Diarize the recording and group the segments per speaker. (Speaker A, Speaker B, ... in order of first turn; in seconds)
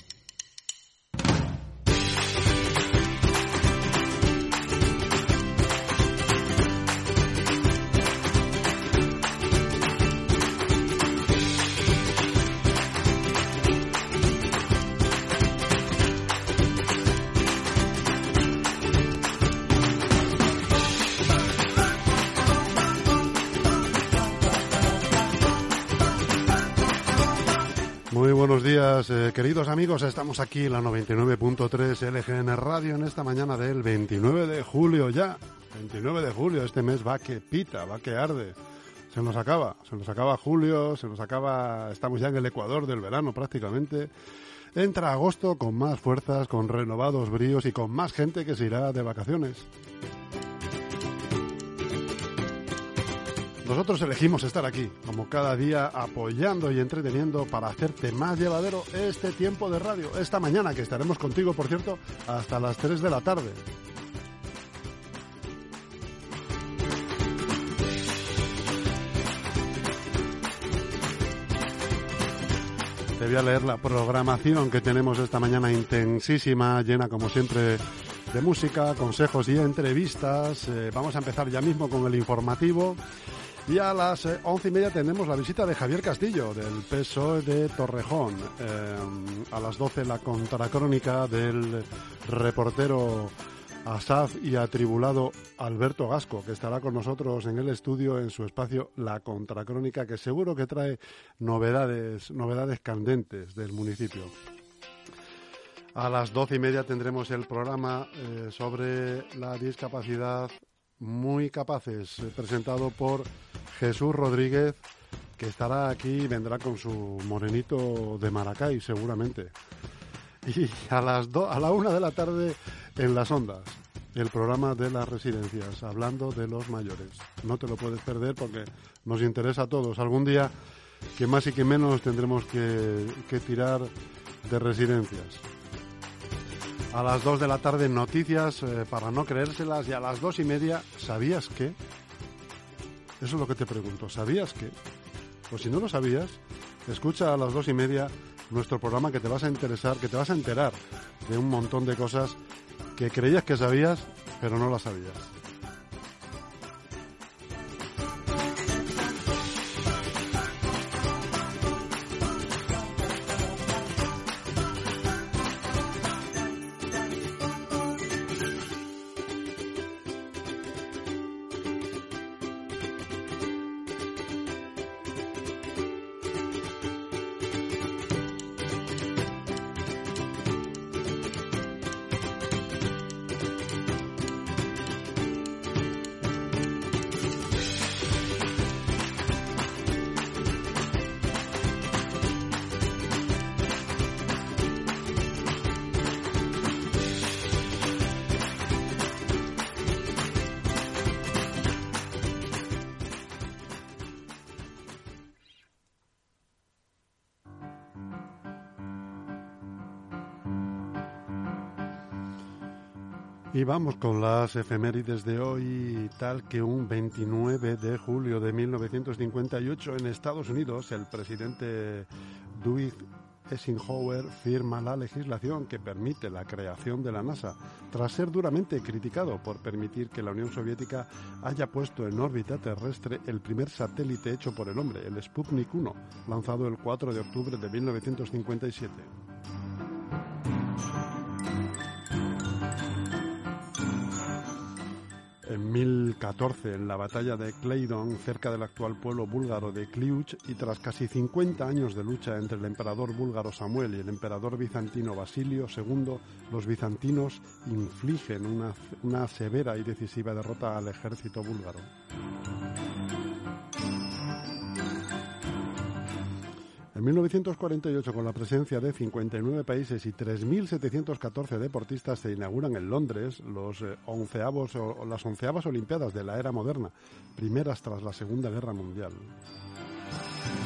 Speaker A: 28.1-38.6, 39.1-44.1, 44.7-49.7, 53.6-63.6, 73.2-83.0, 83.7-93.3, 93.8-104.3, 105.9-114.8, 115.4-119.5, 120.4-130.5, 131.2-133.9, 134.4-135.4, 136.9-141.8, 143.2-144.7, 145.5-152.4, 152.9-155.3, 213.5-239.1, 245.4-261.9, 266.9-279.3